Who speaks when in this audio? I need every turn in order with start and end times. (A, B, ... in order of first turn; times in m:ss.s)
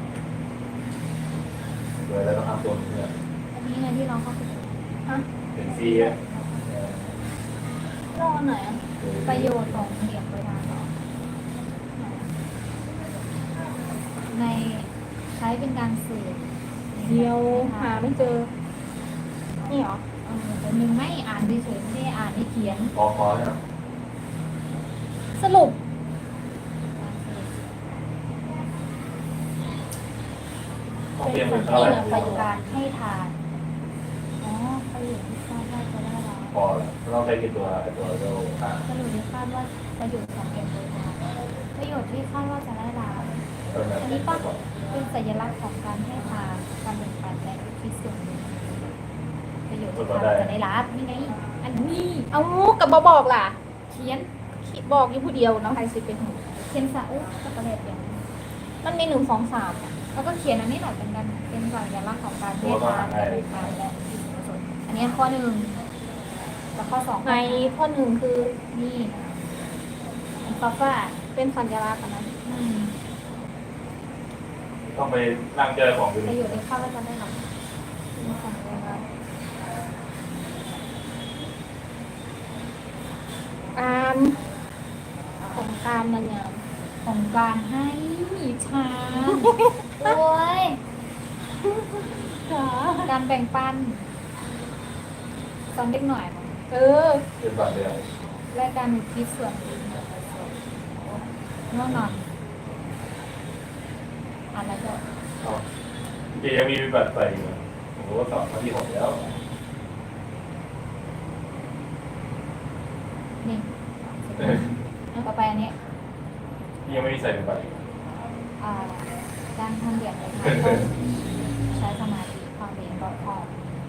0:02.0-0:03.1 A
0:03.5-0:04.8 B
0:05.5-0:07.0 A
0:05.6-0:06.9 B
0:08.1-0:08.8 C
0:09.0-0:09.9 A
0:09.2-0:10.9 B
0:12.0-0:12.3 C
0:14.3-0:18.5 B
0:17.0-0:18.5 C
0:19.6-0:22.9 B
0:19.7-0:20.0 C
0:22.9-0:23.6 A
0:25.4-0:25.8 C
0:27.0-0:27.6 B
0:31.2-0:32.4 A
0:31.2-0:32.5 C
0:31.4-0:33.3 B
0:34.4-0:36.6 B
0:36.5-0:38.8 A
0:38.8-0:43.4 B
0:43.7-0:44.6 A
0:44.0-0:48.9 B
0:49.7-0:52.3 B
0:49.9-0:50.5 A
0:52.3-0:53.6 C
0:53.9-0:54.3 B
0:54.6-0:56.5 C
0:56.5-0:58.2 B
0:58.8-1:00.0 C
1:00.1-1:05.8 B
1:02.6-1:03.9 A
1:06.8-1:07.8 B
1:07.2-1:08.6 C
1:08.7-1:09.4 B
1:10.4-1:11.2 B
1:11.3-1:12.3 C
1:12.4-1:13.0 B
1:14.9-1:16.5 A
1:16.2-1:17.5 B
1:18.2-1:19.0 C
1:18.3-1:19.0 B
1:23.7-1:24.4 C
1:25.4-1:25.7 B
1:25.5-1:26.6 C
1:27.0-1:30.8 B
1:29.2-1:30.2 C
1:31.6-1:33.1 C
1:33.0-1:34.1 B
1:35.7-1:36.6 B
1:36.7-1:37.2 C
1:37.4-1:38.0 A
1:38.5-1:42.3 B
1:44.5-1:45.0 B
1:46.4-1:49.3 A
1:53.4-1:55.7 B
1:56.8-1:57.8 A
1:58.6-2:01.0 B
2:00.3-2:00.8 A
2:01.6-2:03.6 B